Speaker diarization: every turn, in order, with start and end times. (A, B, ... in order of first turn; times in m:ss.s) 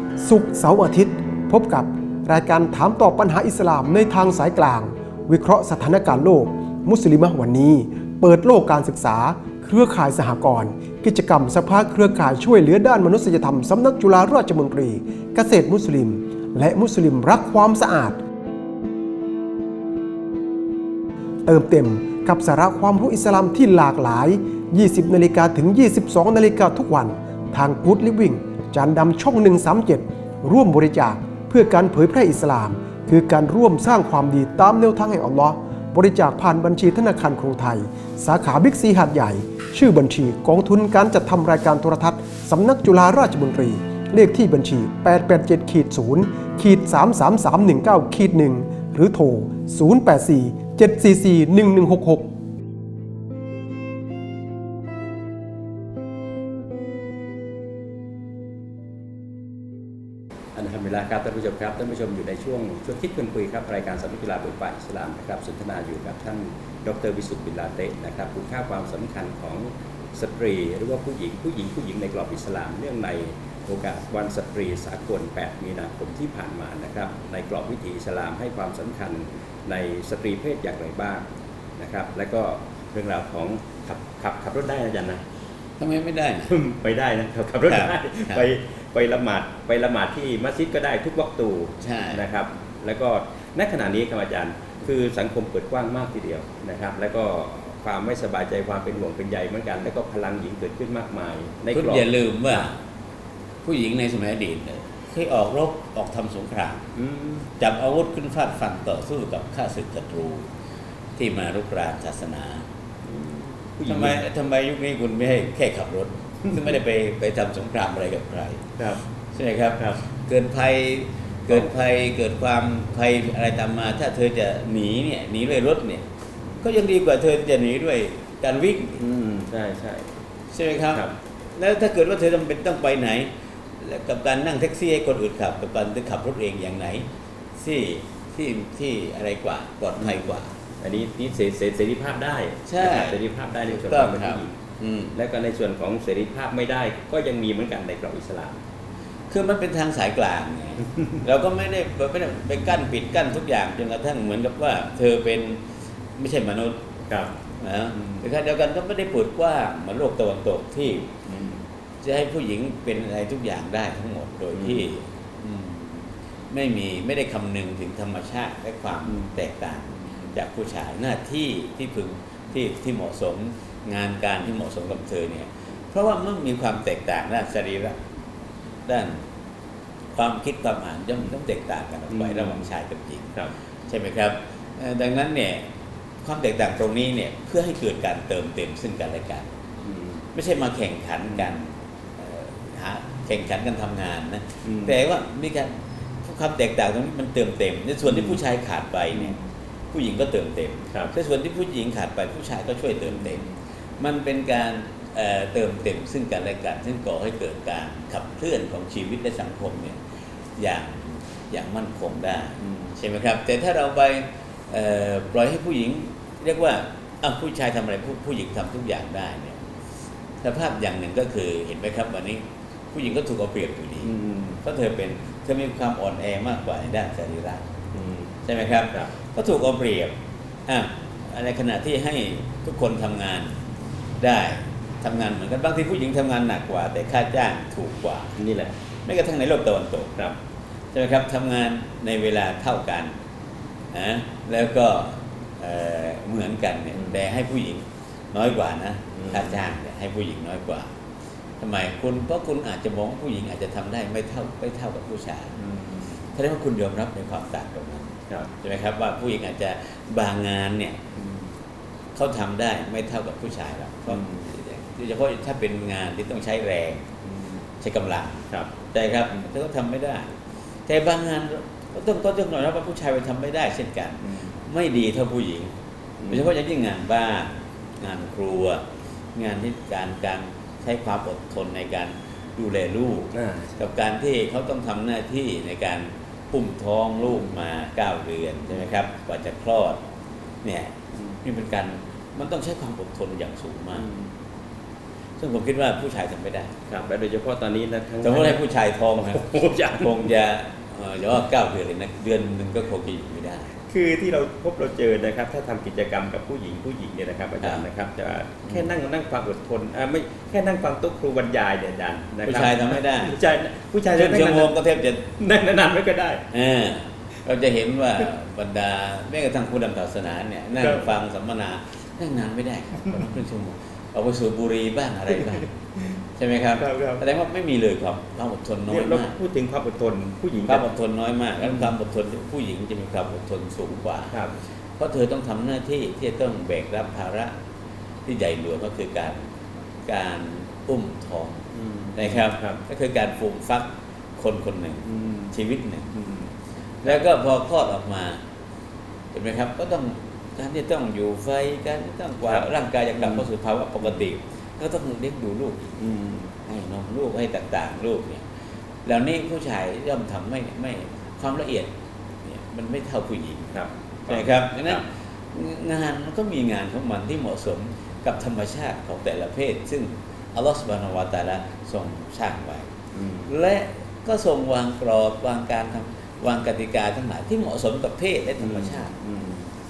0:00.2-0:18.2 A
0:21.5-0:52.3 A
1:00.6-1:21.2 B
1:21.8-1:25.2 B
1:25.8-1:26.5 C
1:26.5-1:42.7 B
1:27.7-1:28.4 C
1:31.8-1:32.2 C
1:41.7-1:42.8 C
1:43.6-1:46.8 C
1:47.0-1:47.5 B
1:47.6-1:50.5 C
1:51.2-1:52.7 C
1:53.0-1:54.2 B
1:53.9-1:58.6 C
1:59.4-2:06.1 C
1:59.8-2:00.0 B
2:06.6-2:09.0 C
2:09.0-2:10.1 B
2:10.5-2:20.5 C
2:20.0-2:20.3 B
2:20.8-2:24.6 B
2:22.7-2:25.1 C
2:25.1-2:28.6 B
2:29.3-2:35.6 C
2:36.2-2:36.9 C
2:37.1-2:37.3 B
2:37.6-2:41.1 C
2:38.0-2:38.2 B
2:41.3-2:41.6 B
2:42.0-2:58.0 C
2:44.5-2:44.9 B
2:50.0-2:50.3 B
2:58.9-2:59.2 C
3:00.2-3:03.3 C
3:02.1-3:02.7 B
3:03.9-3:05.7 C
3:06.2-3:09.5 C
3:09.8-3:10.2 B
3:10.3-3:19.4 C
3:14.6-3:15.0 B
3:18.1-3:18.4 B
3:19.1-3:19.4 B
3:19.9-3:23.4 C
3:23.1-3:23.5 B
3:24.0-3:30.0 C
3:30.6-3:39.6 C
3:32.6-3:33.0 B
3:40.4-3:47.6 C
3:44.0-3:44.6 B
3:47.9-3:48.4 B
3:48.5-3:50.1 C
3:50.7-3:53.6 C
3:54.2-3:58.4 C
3:58.4-3:58.8 B
3:59.0-4:00.1 C
4:00.9-4:03.1 C
4:03.9-4:10.9 C
4:09.1-4:09.6 B
4:11.6-4:15.6 C
4:15.6-4:16.2 B
4:16.3-4:21.0 C
4:21.2-4:21.5 B
4:22.2-4:27.1 C
4:24.1-4:24.5 B
4:27.2-4:27.6 B
4:27.8-4:30.4 C
4:30.9-4:35.7 C
4:34.2-4:34.5 B
4:36.2-4:36.4 B
4:36.3-4:50.0 C
4:43.4-4:43.8 B
4:50.6-4:54.1 C
4:54.0-4:54.3 B
4:55.4-4:56.7 C
4:56.9-4:58.6 B
4:58.2-5:03.7 C
4:59.2-5:00.3 B
5:03.9-5:14.8 B
5:12.4-5:13.4 C
5:14.1-5:15.3 C
5:15.4-5:16.5 B
5:16.5-5:25.7 C
5:20.8-5:21.1 B
5:26.4-5:29.3 C
5:26.8-5:27.2 B
5:28.9-5:30.9 B
5:30.7-5:34.4 C
5:31.6-5:31.9 B
5:35.0-5:37.6 C
5:38.3-5:39.5 C
5:40.1-5:41.6 C
5:41.7-5:42.8 B
5:42.2-5:46.1 C
5:45.1-5:45.5 B
5:46.1-5:46.5 B
5:47.0-5:48.4 C
5:49.3-5:56.0 C
5:53.2-5:53.4 B
5:56.0-5:56.5 B
5:56.6-5:58.5 C
5:59.0-6:01.9 C
6:02.4-6:03.7 C
6:03.7-6:05.0 B
6:04.3-6:12.9 C
6:13.1-6:13.5 B
6:13.5-6:19.1 C
6:18.6-6:19.7 B